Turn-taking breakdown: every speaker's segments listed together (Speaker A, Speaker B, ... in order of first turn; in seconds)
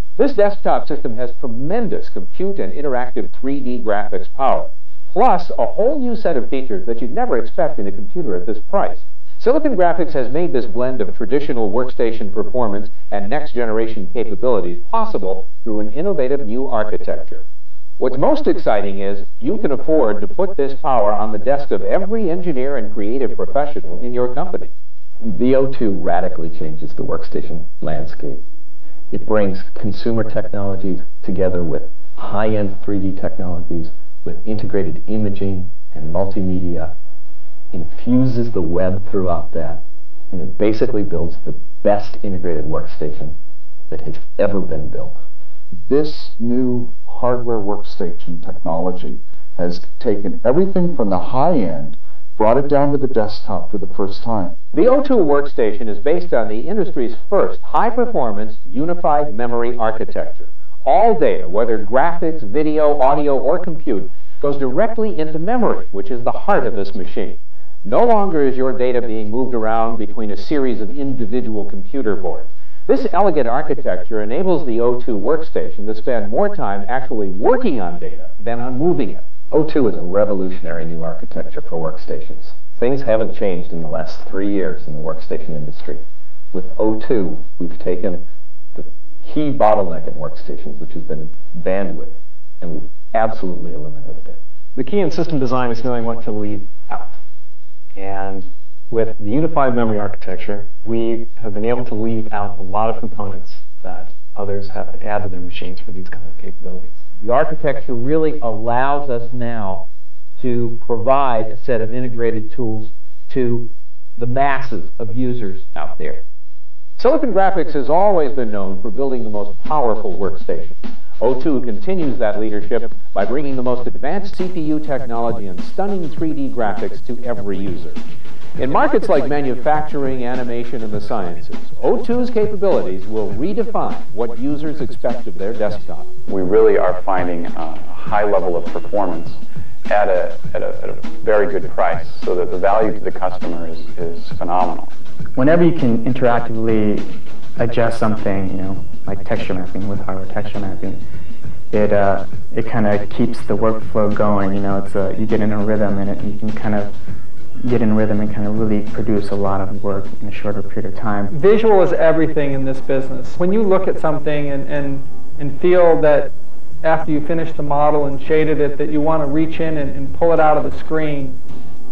Speaker A: 0.2-17.4, 18.0-24.7, 54.7-79.2, 117.0-128.0, 128.6-136.1
Speaker B: 25.2-28.4, 29.1-36.9, 37.7-43.4, 43.9-45.2, 79.5-86.0, 86.5-88.2, 88.8-94.4
Speaker C: 45.7-54.6
Speaker D: 94.8-97.2, 98.0-107.0
Speaker E: 107.2-109.9, 110.4-116.2
Speaker F: 136.3-144.9
Speaker G: 145.4-151.0, 151.7-156.9, 157.6-161.3
Speaker H: 161.3-166.3, 166.8-171.4